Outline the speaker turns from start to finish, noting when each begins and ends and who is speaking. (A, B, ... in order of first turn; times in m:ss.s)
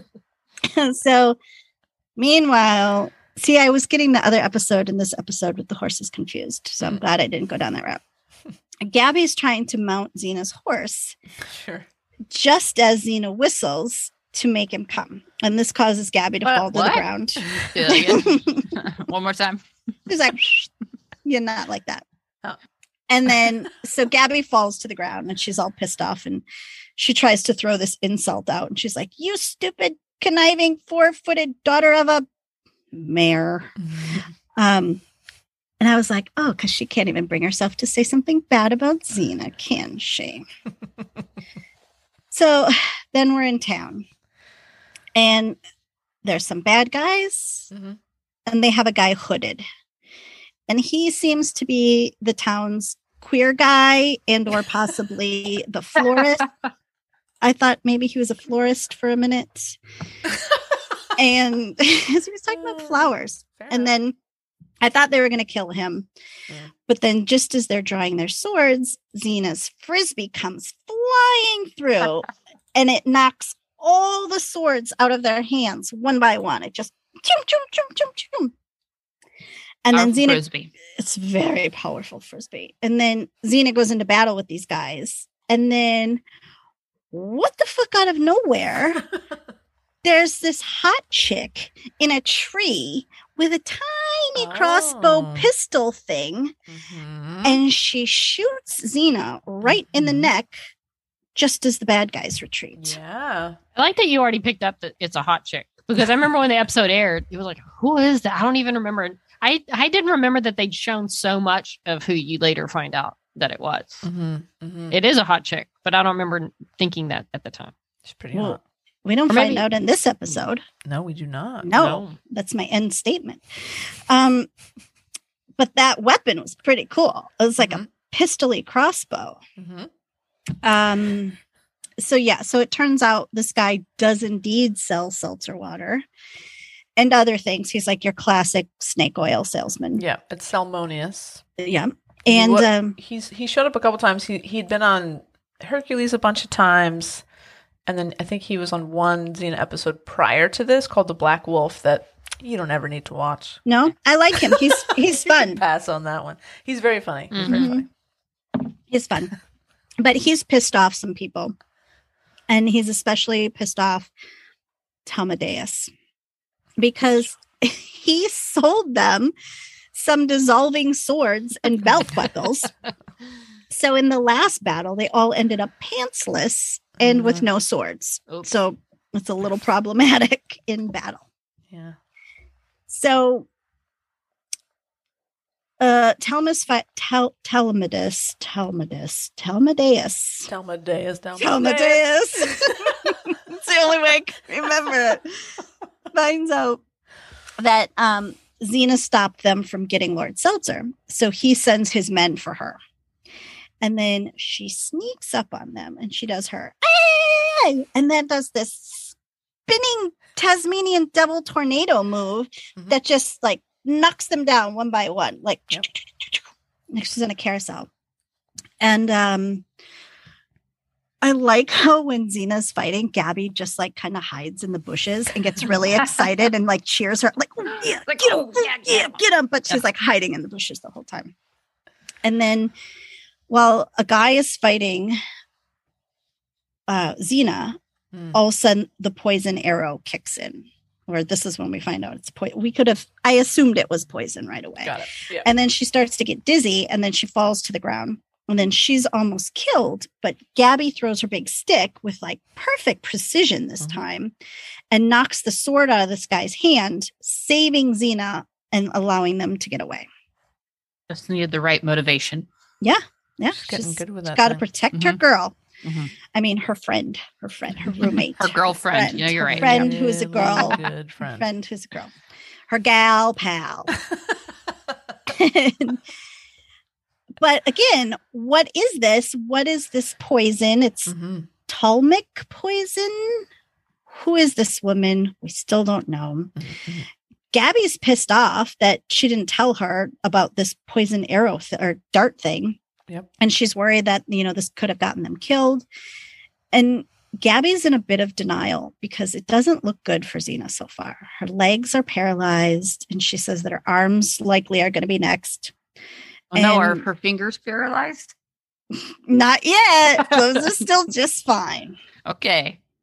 0:00.6-0:01.4 A
0:02.2-0:08.0 A
0:08.8-0:11.2 A
0:11.5-0:11.9 B
0:12.3-0:18.7 A
0:16.5-0:17.0 B
0:17.5-0:19.6 C
0:20.1-0:20.7 A
0:21.2-0:22.0 A
0:23.1-0:26.4 A
0:27.0-0:32.3 A
0:32.9-0:33.7 A
0:33.9-0:34.2 B
0:34.6-0:35.0 A
0:35.8-0:40.5 A
0:42.3-0:44.0 A
0:45.2-0:45.6 A
0:46.2-0:47.7 A
0:47.7-0:48.0 B
0:48.5-0:49.6 A
0:50.7-0:56.5 A
0:57.4-0:59.8 A
1:01.2-1:04.2 A
1:02.5-1:03.9 B
1:04.8-1:06.1 A
1:06.9-1:18.5 A
1:19.8-1:20.4 A
1:19.9-1:20.7 C
1:21.0-1:26.2 A
1:27.1-1:29.0 A
1:30.0-1:36.5 A
1:34.4-1:35.5 B
1:36.7-1:37.6 B
1:37.4-1:40.6 A
1:39.6-1:40.3 B
1:41.4-1:43.0 A
1:42.8-1:43.6 B
1:43.8-1:54.1 D
1:54.0-1:55.0 B
1:54.9-1:57.7 D
1:58.0-1:58.6 B
1:58.3-2:00.6 A
1:59.3-1:59.6 D
2:00.3-2:02.0 B
2:01.6-2:03.4 A
2:01.8-2:02.2 D
2:04.1-2:04.5 A
2:05.6-2:09.4 A
2:07.6-2:07.9 B
2:09.6-2:09.9 B
2:10.6-2:11.4 A
2:12.0-2:16.0 A
2:17.0-2:20.0 A
2:20.0-2:21.4 B
2:21.6-2:23.0 A
2:22.3-2:27.2 B
2:27.9-2:33.6 B
2:33.7-2:35.6 A
2:34.4-2:37.9 B
2:37.3-2:37.7 D
2:37.4-2:37.8 A
2:38.9-2:39.3 A
2:40.0-2:41.5 A
2:42.5-2:44.1 A
2:45.1-2:45.9 A
2:46.8-2:49.3 A
2:49.9-2:52.7 A
2:53.7-3:01.2 A
2:57.0-2:57.5 B
3:01.7-3:02.0 B
3:02.9-3:03.5 A
3:05.8-3:10.5 A
3:10.5-3:13.1 B
3:11.4-3:15.3 A
3:16.1-3:16.8 A
3:17.6-3:22.8 A
3:23.8-3:29.2 A
3:29.7-3:37.9 A
3:38.8-3:39.6 A
3:41.2-3:51.3 A
3:47.7-3:49.2 C
3:52.2-3:52.7 A
3:53.5-3:55.2 A
3:56.9-3:57.8 A
3:58.1-3:58.4 B
3:58.3-4:14.3 A
4:04.8-4:05.5 B
4:14.9-4:20.1 A
4:21.1-4:22.5 C
4:22.8-4:25.6 A
4:23.6-4:24.6 B
4:24.9-4:25.2 C
4:25.8-4:26.1 C
4:26.3-4:32.1 A
4:28.4-4:30.0 C
4:29.4-4:31.5 B
4:32.7-4:33.9 A
4:35.3-4:36.0 A
4:37.4-4:41.1 A
4:41.1-4:41.5 B
4:41.7-4:43.4 A
4:44.1-4:46.5 A
4:46.6-4:47.1 B
4:47.5-4:52.8 A
4:53.4-4:55.9 A
4:56.7-5:05.7 A
5:06.5-5:08.3 C
5:06.6-5:07.1 A
5:08.9-5:12.0 A
5:10.2-5:10.7 C
5:12.3-5:12.8 C